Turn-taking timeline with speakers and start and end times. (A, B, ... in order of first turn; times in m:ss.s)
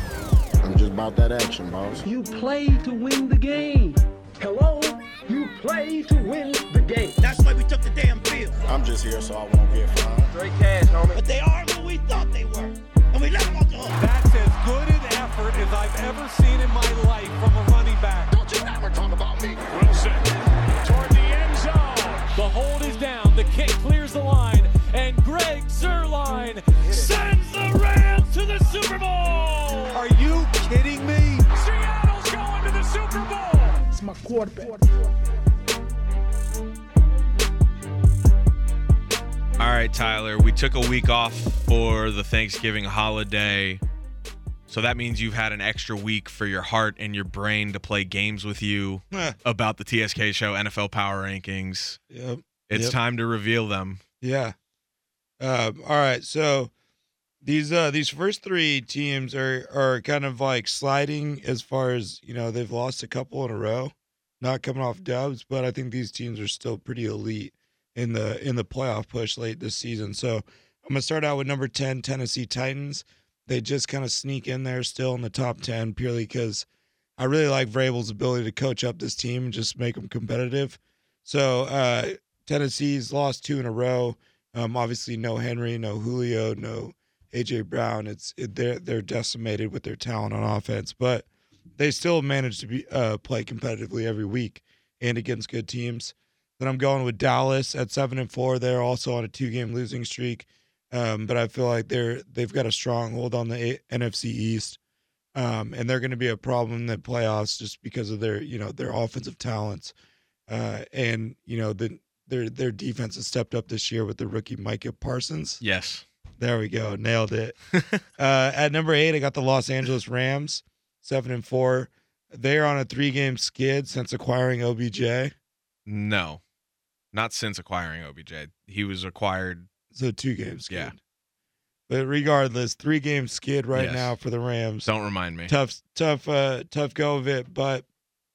0:00.6-0:02.0 A
0:02.0-0:07.2 B
0:07.2-0:08.6 C
0:08.7-0:11.2 A
0:11.1-0:14.0 C
0:14.0-0:18.4 D
0:18.6-0:19.6 A
0:19.7-0:33.8 D
0:33.9-0:35.0 B
0:39.6-0:43.8 E
0:44.7-0:52.0 E
0:52.1-0:53.0 F
0:52.7-0:54.0 E
0:54.2-0:54.6 F
0:55.4-0:56.7 F
0:57.4-1:16.7 F
1:17.2-1:31.3 F
1:31.8-1:44.8 F
1:45.4-1:49.9 F
1:50.5-1:55.6 F
1:55.6-1:56.0 E
1:56.4-1:57.6 F
1:57.8-1:58.0 E
1:58.2-2:05.3 F
2:05.9-2:06.4 E
2:07.1-2:09.7 E
2:09.9-2:11.0 F
2:10.7-2:10.9 E
2:11.9-2:14.9 F
2:13.7-2:14.2 E
2:14.8-2:15.5 E
2:15.5-2:17.8 F